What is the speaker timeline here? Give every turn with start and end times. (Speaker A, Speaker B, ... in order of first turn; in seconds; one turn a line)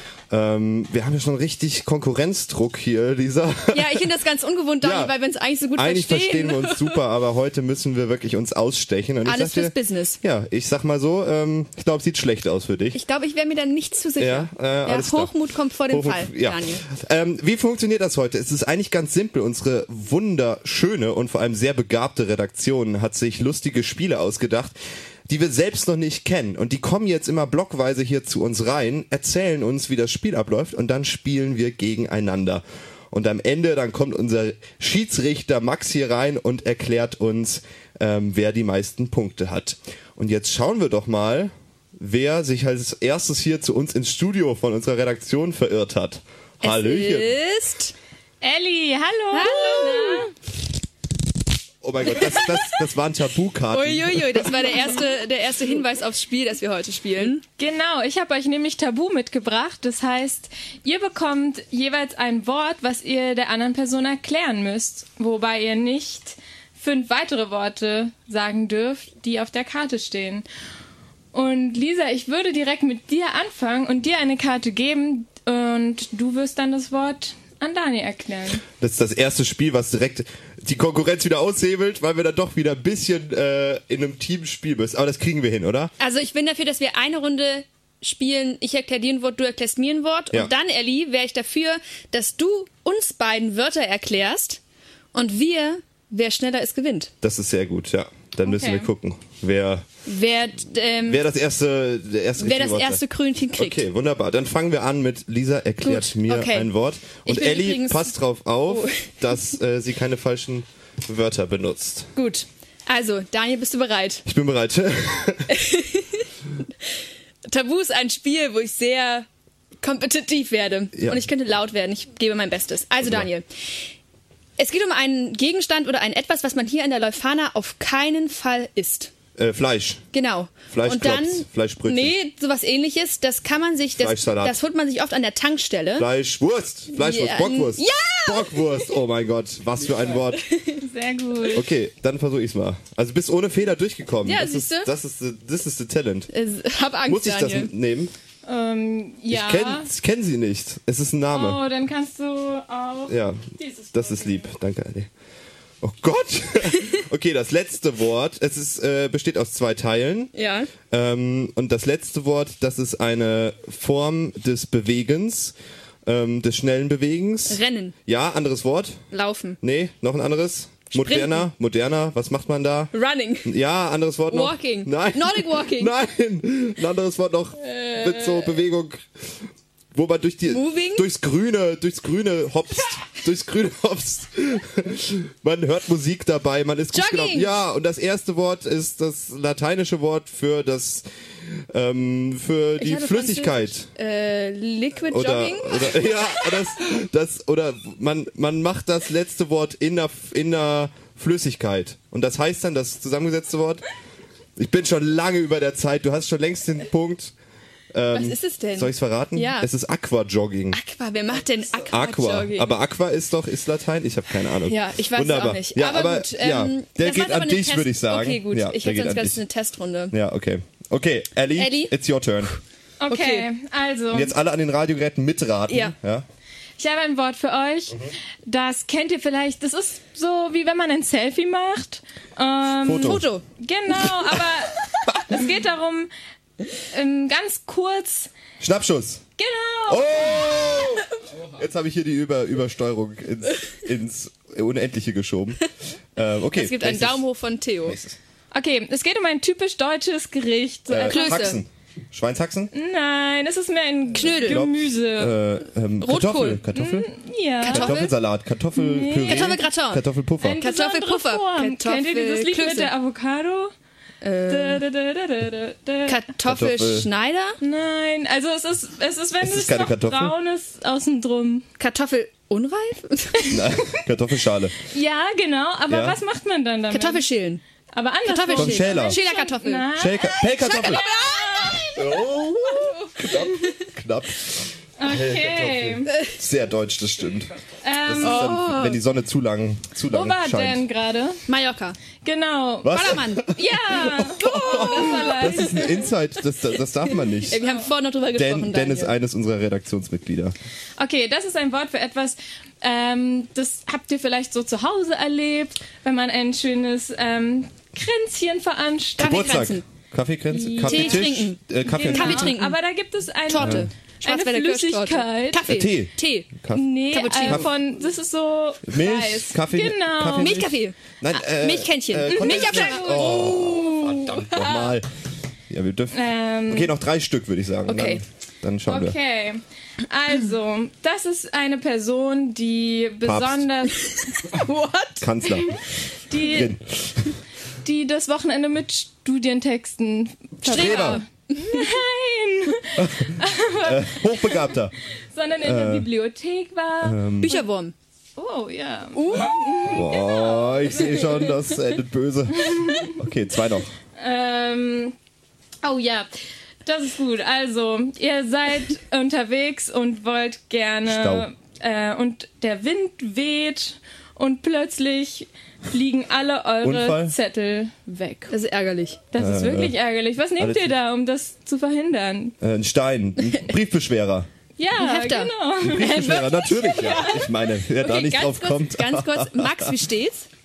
Speaker A: 0.3-4.0
Speaker B: 3.7-7.0
Speaker A: 4.8-5.1
Speaker A: 5.8-13.0
Speaker B: 9.2-10.2
Speaker B: 12.9-16.8
Speaker A: 14.2-15.3
Speaker A: 15.9-24.8
Speaker A: 25.3-47.4
Speaker B: 46.6-47.9
Speaker C: 48.4-50.3
Speaker B: 49.3-50.3
Speaker A: 51.8-54.8
Speaker B: 53.7-57.4
Speaker C: 57.5-70.5
Speaker C: 71.3-78.6
Speaker A: 78.7-85.9
Speaker B: 86.0-94.6
Speaker B: 95.1-97.1
Speaker A: 97.2-99.9
Speaker C: 98.4-98.9
Speaker B: 100.1-101.2
Speaker A: 101.1-103.0
Speaker B: 102.4-103.8
Speaker A: 103.6-112.1
Speaker B: 105.8-106.7
Speaker B: 107.2-108.1
Speaker B: 108.7-109.1
Speaker B: 112.2-114.2
Speaker A: 114.3-115.5
Speaker B: 115.5-116.2
Speaker B: 117.5-119.3
Speaker B: 119.8-123.5
Speaker A: 121.0-121.2
Speaker A: 123.0-123.3
Speaker B: 124.6-129.1
Speaker A: 129.4-130.1
Speaker B: 130.1-136.1
Speaker A: 130.7-132.2
Speaker A: 134.0-134.6
Speaker A: 136.0-140.5
Speaker B: 136.9-138.9
Speaker B: 140.3-140.8
Speaker C: 140.8-141.7
Speaker A: 141.5-146.3
Speaker B: 144.2-144.9
Speaker B: 146.3-147.7
Speaker A: 147.1-148.1
Speaker C: 148.4-149.9
Speaker A: 149.3-151.6
Speaker C: 151.3-154.5
Speaker A: 153.1-155.1
Speaker A: 155.8-169.1
Speaker B: 160.3-160.7
Speaker B: 167.5-167.9
Speaker B: 169.1-169.6
Speaker A: 169.6-179.0
Speaker B: 170.9-171.4
Speaker B: 172.9-173.5
Speaker B: 174.3-175.9
Speaker B: 177.7-178.4
Speaker A: 179.9-191.1
Speaker B: 180.5-181.1
Speaker B: 186.9-187.5
Speaker A: 191.7-193.9
Speaker B: 192.8-196.6
Speaker A: 195.1-203.8
Speaker A: 204.6-207.3
Speaker A: 207.9-210.8
Speaker B: 208.1-209.7
Speaker B: 210.7-212.7
Speaker A: 211.9-219.4
Speaker B: 214.6-220.2
Speaker A: 220.1-222.5
Speaker B: 221.6-221.9
Speaker C: 223.0-224.3
Speaker B: 223.1-223.5
Speaker A: 224.1-226.3
Speaker B: 225.7-225.9
Speaker C: 226.8-236.1
Speaker A: 232.8-233.3
Speaker B: 233.0-233.4
Speaker C: 236.9-238.3
Speaker A: 238.6-239.2
Speaker C: 239.4-240.6
Speaker A: 239.9-245.6
Speaker A: 246.2-247.3
Speaker B: 246.5-248.0
Speaker A: 247.8-248.2
Speaker C: 248.5-251.6
Speaker A: 250.9-252.7
Speaker B: 251.1-251.6
Speaker C: 252.7-255.4
Speaker B: 254.1-254.7
Speaker A: 254.4-257.1
Speaker B: 256.0-256.6
Speaker C: 256.7-258.1
Speaker B: 257.6-258.1
Speaker A: 257.7-260.7
Speaker C: 258.8-259.8
Speaker B: 259.2-260.1
Speaker C: 260.4-263.7
Speaker B: 260.6-262.9
Speaker B: 264.2-264.8
Speaker C: 264.5-266.3
Speaker B: 266.1-267.6
Speaker A: 266.4-267.1
Speaker C: 267.6-271.7
Speaker A: 269.4-270.4
Speaker B: 271.8-273.6
Speaker A: 273.5-274.8
Speaker C: 274.9-277.3
Speaker A: 275.9-276.2
Speaker B: 276.9-277.6
Speaker C: 277.9-281.9
Speaker B: 278.2-279.9
Speaker A: 278.5-279.2
Speaker A: 280.0-281.0
Speaker B: 280.6-282.0
Speaker A: 281.9-287.5
Speaker B: 282.8-283.1
Speaker C: 285.0-286.1
Speaker C: 287.8-288.7
Speaker A: 288.0-290.9
Speaker B: 288.2-289.0
Speaker C: 290.1-291.4
Speaker B: 291.5-292.0
Speaker C: 292.2-296.1
Speaker A: 292.8-297.6
Speaker B: 292.9-293.6
Speaker B: 294.7-295.5
Speaker B: 297.5-299.1
Speaker A: 298.3-300.6
Speaker C: 301.0-309.7
Speaker B: 309.2-309.9
Speaker A: 309.2-312.6
Speaker C: 310.5-315.7
Speaker B: 310.8-312.8
Speaker B: 313.5-317.7
Speaker A: 313.6-313.9
Speaker A: 315.7-317.7
Speaker C: 316.7-320.7
Speaker A: 318.9-325.1
Speaker B: 320.4-323.4
Speaker C: 322.3-325.0
Speaker A: 325.7-329.2
Speaker C: 326.1-326.9
Speaker B: 327.9-328.2
Speaker C: 328.9-334.4
Speaker A: 333.2-333.7
Speaker B: 334.4-335.2
Speaker A: 335.2-335.8
Speaker C: 336.3-336.7
Speaker A: 336.3-337.3
Speaker C: 337.8-344.7
Speaker A: 340.6-341.2
Speaker B: 340.7-341.9
Speaker A: 343.0-344.9
Speaker C: 345.3-347.7
Speaker A: 345.6-346.1
Speaker A: 347.0-347.6
Speaker B: 347.4-347.9
Speaker C: 348.4-351.7
Speaker B: 349.1-349.9
Speaker A: 349.9-353.9
Speaker C: 352.6-353.1
Speaker C: 354.2-355.1
Speaker C: 355.8-356.3
Speaker C: 356.9-368.6
Speaker A: 361.1-361.5
Speaker A: 366.8-367.4
Speaker B: 368.5-369.3
Speaker C: 369.3-372.6
Speaker A: 369.4-370.0
Speaker A: 370.6-370.9
Speaker A: 372.6-374.5
Speaker C: 374.8-377.5
Speaker B: 375.0-375.5
Speaker A: 375.8-379.9
Speaker B: 378.0-380.5